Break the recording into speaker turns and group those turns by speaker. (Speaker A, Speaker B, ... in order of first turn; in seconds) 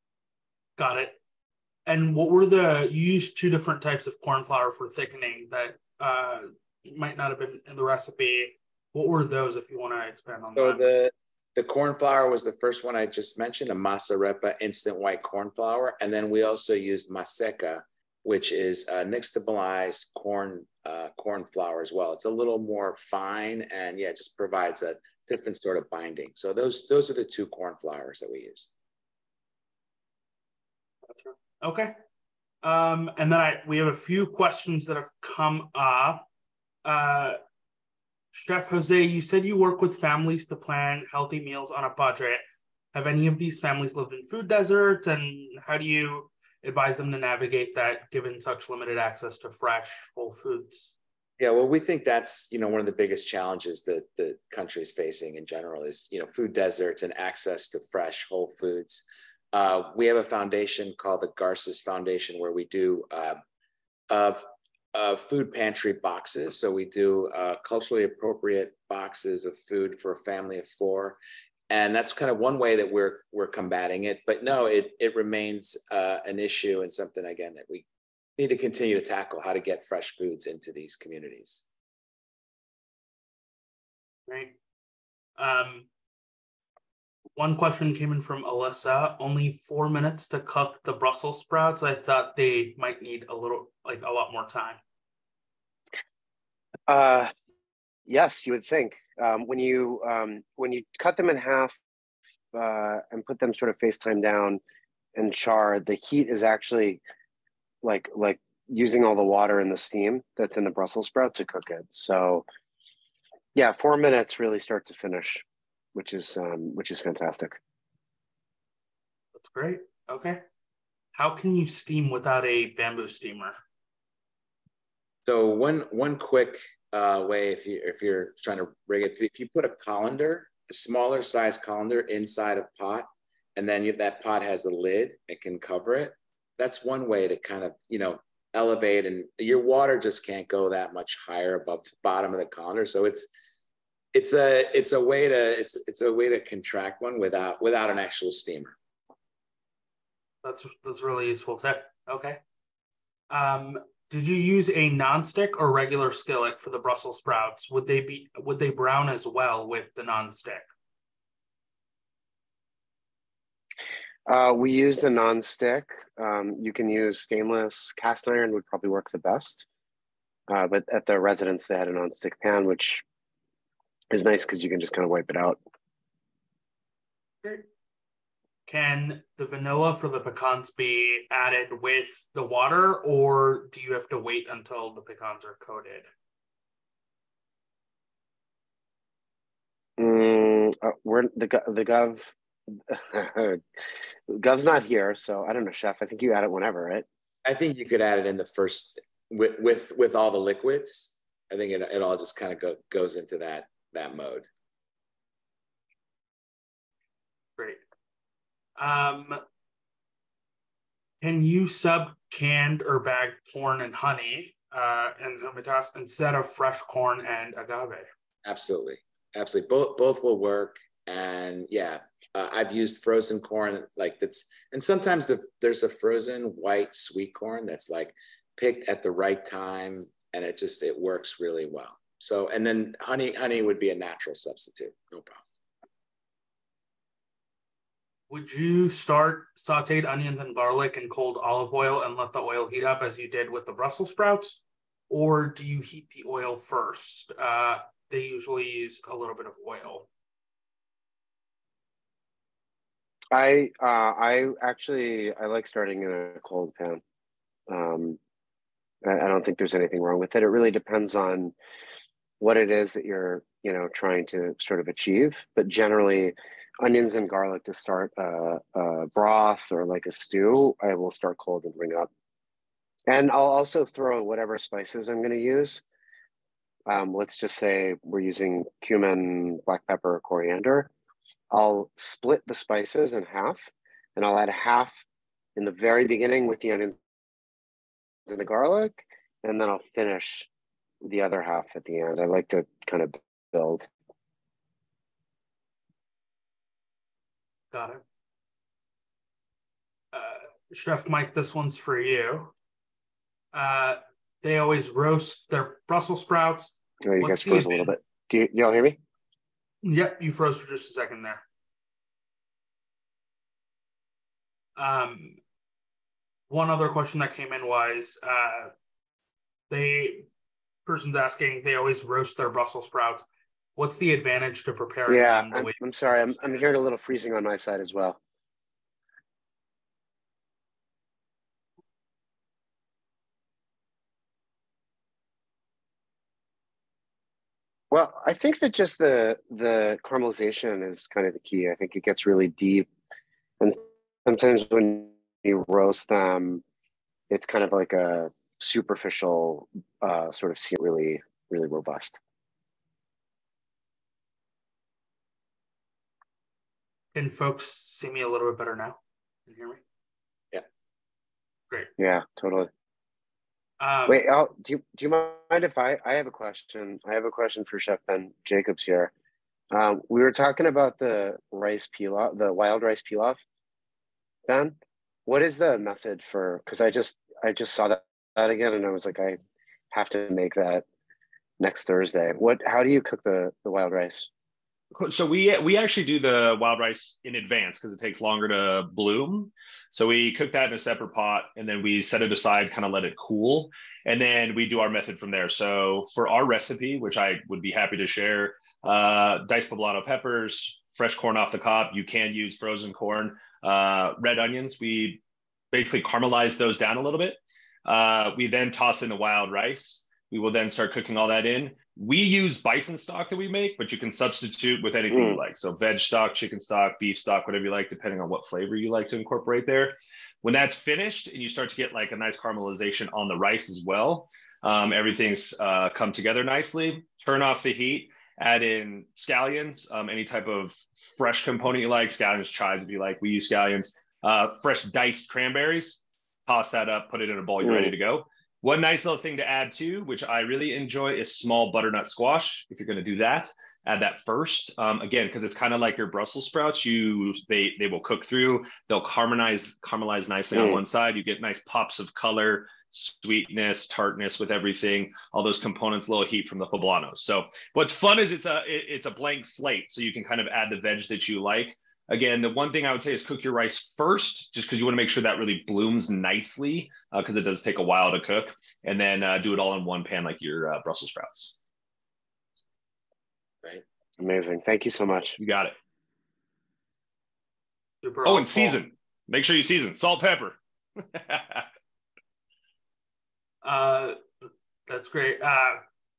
Speaker A: 0.8-1.1, 1.9-10.8, 31.1-31.9, 32.6-36.2, 36.8-37.4, 38.3-42.4, 42.9-51.0, 84.3-84.5, 85.4-85.9, 87.3-94.8, 119.4-120.4, 121.1-123.6, 150.4-152.4, 153.3-160.7, 178.7-186.1, 208.8-209.4, 211.2-218.1, 238.3-244.6, 245.1-250.1, 297.7-298.0, 300.1-302.5, 303.5-307.9, 309.8-311.4, 314.8-315.4, 316.5-318.7, 319.7-320.2, 320.9-323.2, 323.8-326.8, 357.1-359.8, 363.8-364.2, 478.0-478.8, 483.6-484.2, 484.9-485.8
Speaker B: 10.5-28.7, 51.4-63.4, 64.1-64.4, 64.9-71.2, 71.7-77.8, 78.4-81.6, 125.2-143.3, 144.1-148.7, 197.4-204.5, 218.4-235.4
Speaker C: 96.9-97.3, 98.1-101.8, 102.5-104.6, 105.1-107.0, 107.8-112.5, 113.5-115.4, 115.9-117.6, 164.3-169.7, 170.5-173.0, 174.1-175.6, 190.0-193.6, 194.3-197.1, 253.3-257.0, 257.7-258.2, 259.0-261.5, 262.4-272.1, 273.1-275.8, 276.9-280.9, 281.5-285.0, 285.6-287.0, 288.3-290.5, 291.0-293.9, 307.0-309.0, 325.1-328.2, 337.9-342.9, 343.6-346.6, 347.3-352.2, 362.0-362.7, 364.1-369.1, 369.7-373.4, 374.5-374.8, 375.3-379.4, 379.9-380.8, 381.6-384.3, 415.1-415.4, 437.6-437.9, 450.5-450.8, 474.2-475.4
Speaker D: 384.9-405.2, 405.7-471.5, 475.4-475.7, 478.2-480.6, 481.1-481.6